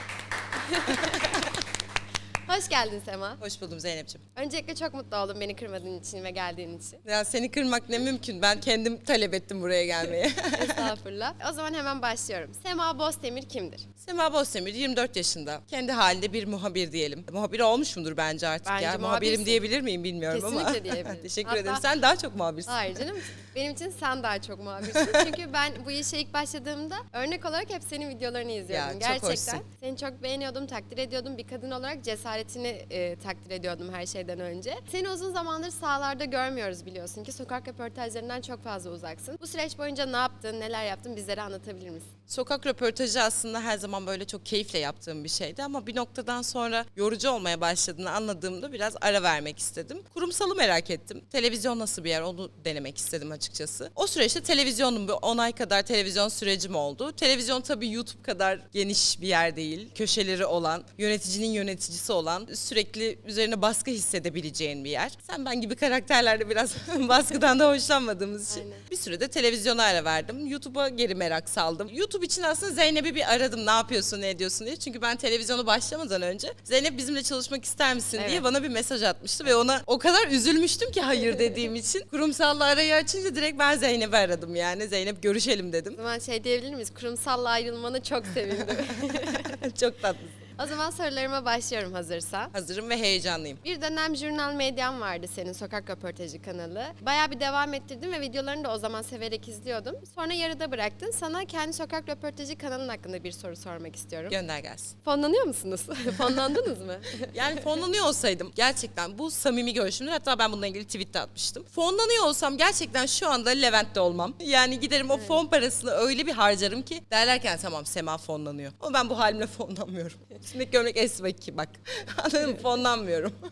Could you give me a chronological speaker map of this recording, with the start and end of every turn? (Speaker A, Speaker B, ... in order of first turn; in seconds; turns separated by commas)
Speaker A: 0.5-1.6, Speaker A: 2.5-3.4, Speaker B: 3.4-4.2, Speaker A: 4.4-7.0, Speaker B: 7.0-10.9, Speaker A: 10.5-13.8, Speaker B: 14.0-23.1, Speaker A: 18.6-19.6, Speaker A: 20.3-21.8, Speaker A: 22.7-42.1, Speaker B: 24.9-25.3, Speaker B: 28.7-29.6, Speaker B: 42.3-86.0, Speaker A: 68.5-68.8, Speaker A: 78.2-78.4, Speaker A: 86.0-89.6, Speaker B: 88.6-90.4, Speaker A: 90.6-92.5, Speaker B: 92.5-93.6, Speaker A: 93.6-104.4, Speaker B: 104.3-104.9, Speaker A: 105.0-107.6, Speaker B: 107.3-123.4, Speaker A: 115.1-115.4